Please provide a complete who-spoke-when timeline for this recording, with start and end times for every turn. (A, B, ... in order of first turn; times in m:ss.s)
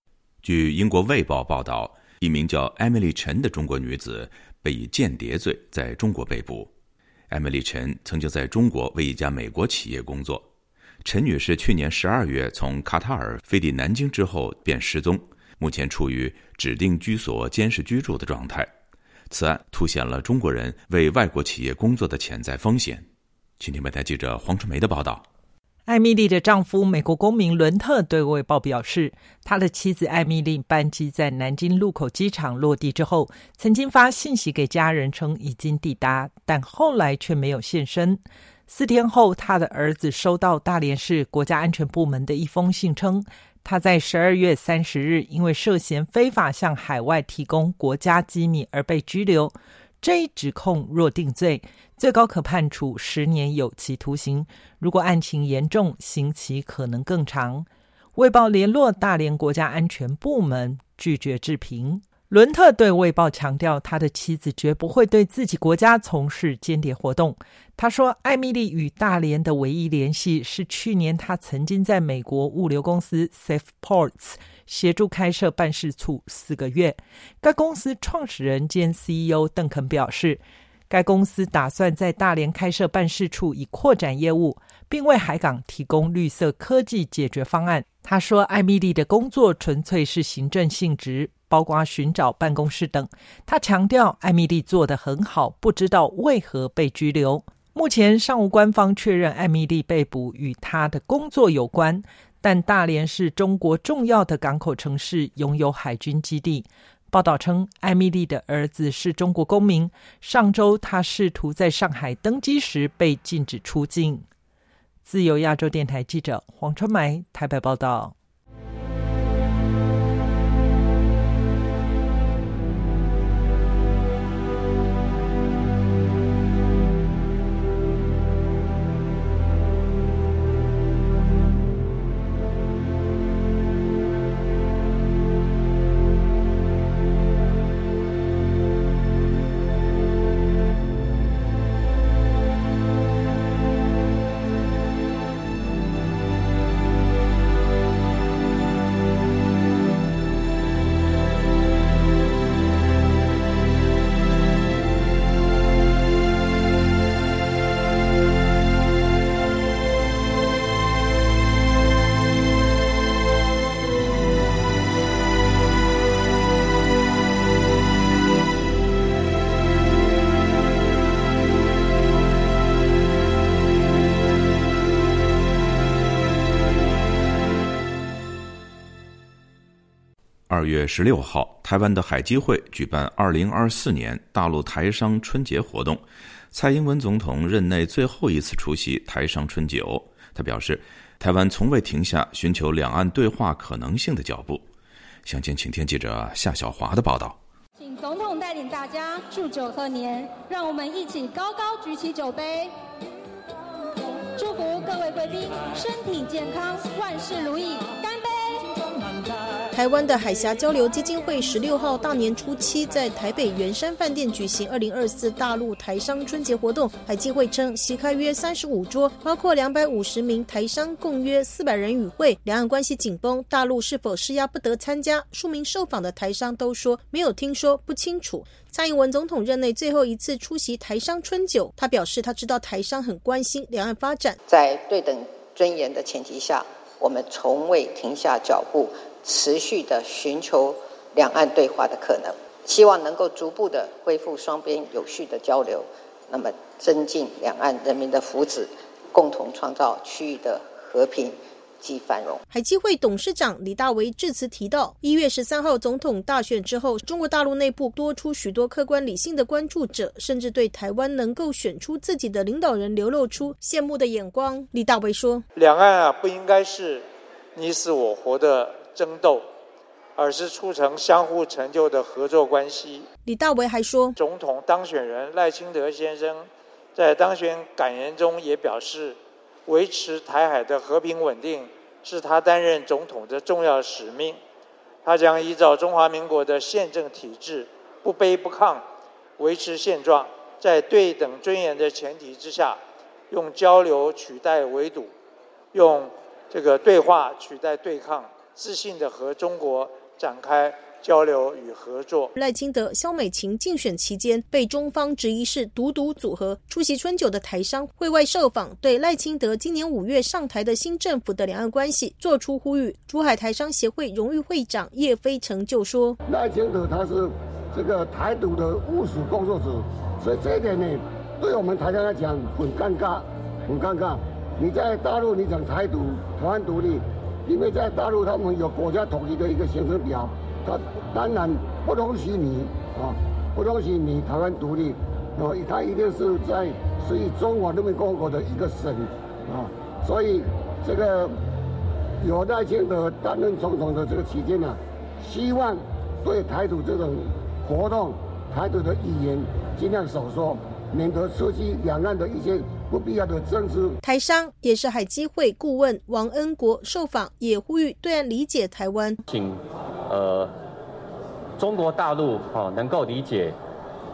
0:00.4-0:06.7 A
0:07.3-0:10.5 A
0:11.0-0:18.7 A
0:19.3-0:23.1 A
0:23.6-0:25.3 A
0:25.9-1:54.3 B
1:55.0-1:58.2 B
3:00.5-3:14.7 A
3:15.3-3:17.4 A
3:17.8-3:22.8 C
3:24.3-3:28.6 C
3:29.7-3:54.4 D
3:54.5-4:12.4 E
4:12.5-4:25.4 D
4:25.6-4:29.5 F
4:30.2-4:33.1 F
4:33.2-4:34.2 D
4:34.2-4:44.4 F
4:45.0-4:48.8 F
4:49.4-4:55.1 F
4:55.7-5:02.3 F
5:02.4-5:16.2 D
5:16.3-5:41.4 G
5:42.2-5:54.0 G
5:54.0-5:59.2 D
5:59.3-6:00.5 H
6:01.6-6:03.6 H